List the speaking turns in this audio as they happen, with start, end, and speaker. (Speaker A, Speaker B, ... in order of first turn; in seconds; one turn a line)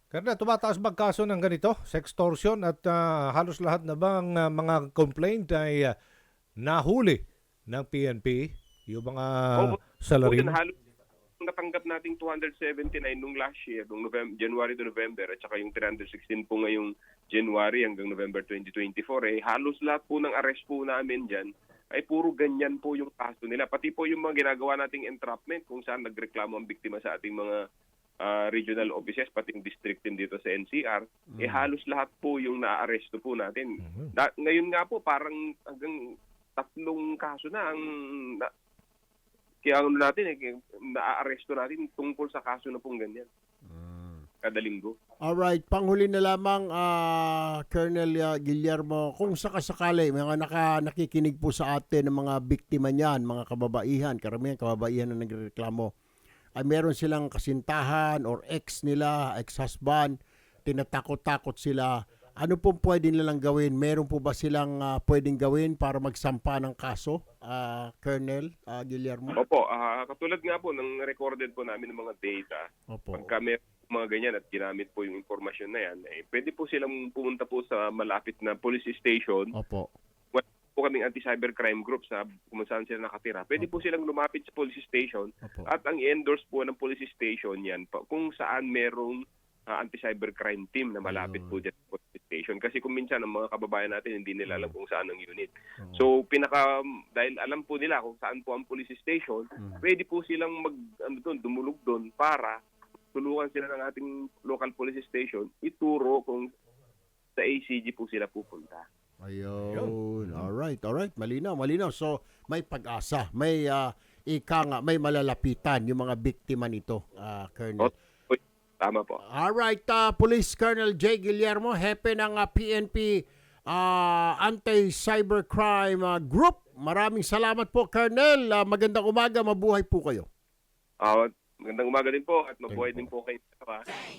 Speaker A: 0.1-5.9
Speaker A: 6.6-10.6
Speaker B: 9.6-10.8
Speaker B: 11.4-27.6
Speaker B: 28.2-36.0
Speaker C: 31.3-31.7
Speaker A: 33.8-34.1
Speaker B: 36.6-38.5
Speaker B: 39.6-43.3
Speaker C: 43.7-44.2
Speaker B: 44.4-44.9
Speaker C: 45.2-55.9
Speaker C: 56.6-60.1
Speaker C: 60.6-69.4
Speaker B: 69.4-72.6
Speaker C: 72.9-73.3
Speaker B: 73.1-79.5
Speaker C: 79.6-79.9
Speaker B: 80.3-102.6
Speaker C: 83.6-83.8
Speaker C: 91.0-91.6
Speaker C: 94.5-94.7
Speaker B: 103.1-106.5
Speaker B: 107.4-108.9
Speaker C: 109.2-117.9
Speaker A: 109.7-110.5
Speaker B: 117.8-119.2
Speaker C: 119.3-130.3
Speaker B: 131.0-133.8
Speaker C: 132.7-133.1